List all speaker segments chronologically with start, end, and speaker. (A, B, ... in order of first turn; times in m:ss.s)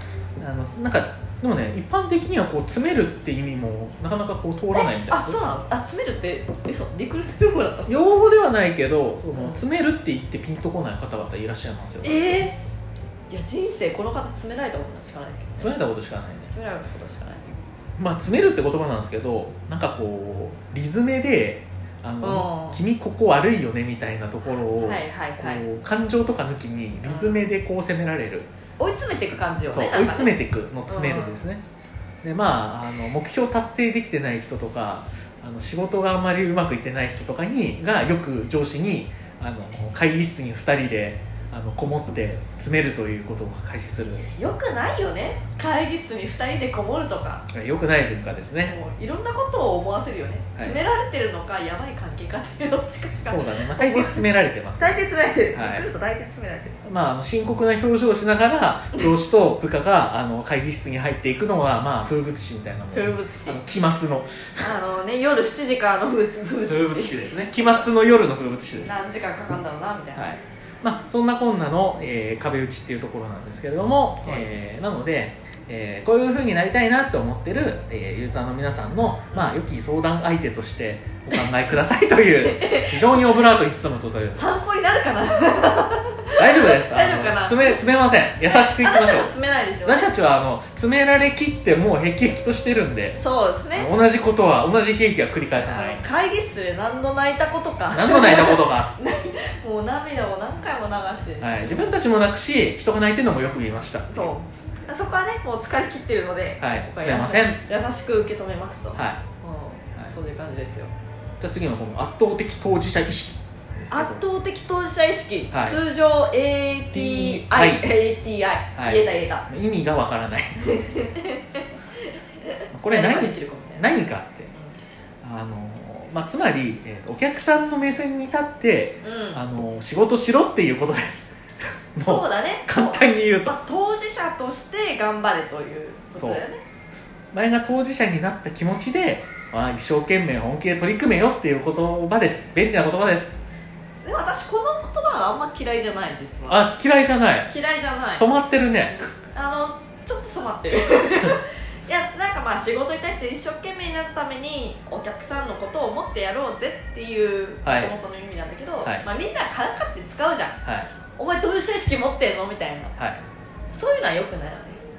0:00.4-0:05.5 A
0:04.8-0:07.9 B
0:07.9-0:12.4 A
0:09.3-0:09.6 B
0:12.0-0:12.6 B
0:13.3-0:15.8 B
0:15.6-0:16.5 A
0:16.5-0:17.6 B
0:18.0-0:28.5 A
0:22.2-0:22.8 B
0:24.8-0:25.6 B
0:27.0-0:27.5 B
0:28.8-0:31.4 B
0:29.7-0:31.6 A
0:32.2-0:44.3 A
0:44.2-0:47.5 B
0:47.5-0:48.8 A
0:48.6-0:54.2 B
0:53.2-0:55.0 A
0:54.8-0:56.8 B
0:55.5-0:55.9 A
0:56.8-1:04.8 A
1:02.9-1:03.6 B
1:04.6-1:07.2 B
1:06.7-1:09.0 A
1:08.8-1:10.3 B
1:10.2-1:24.4 A
1:14.2-1:14.5 B
1:19.3-1:19.6 B
1:22.4-1:23.2 B
1:24.4-1:27.8 B
1:26.4-1:29.3 A
1:28.4-1:30.1 B
1:29.8-1:33.2 A
1:33.2-1:33.9 B
1:33.7-1:36.0 A
1:35.6-1:42.0 B
1:37.9-1:38.9 A
1:41.4-1:44.3 A
1:44.1-1:50.9 B
1:46.6-1:47.7 A
1:49.0-1:49.2 A
1:51.4-1:54.2 A
1:53.9-1:59.5 B
1:55.5-1:55.8 A
1:56.9-1:57.8 A
1:58.8-2:00.6 A
2:00.6-2:01.6 B
2:02.7-2:04.5 A
2:02.9-2:03.9 B
2:05.2-2:11.4 A
2:09.0-2:09.4 B
2:12.0-2:13.6 A
2:12.0-2:16.6 B
2:16.2-2:16.4 A
2:17.3-2:23.4 A
2:24.0-2:26.7 B
2:26.5-2:27.5 A
2:27.5-2:28.3 B
2:28.1-2:29.0 A
2:29.3-2:40.6 B
2:37.6-2:38.0 A
2:40.6-2:40.9 A
2:41.2-2:43.0 B
2:43.0-2:43.2 A
2:43.7-2:44.8 B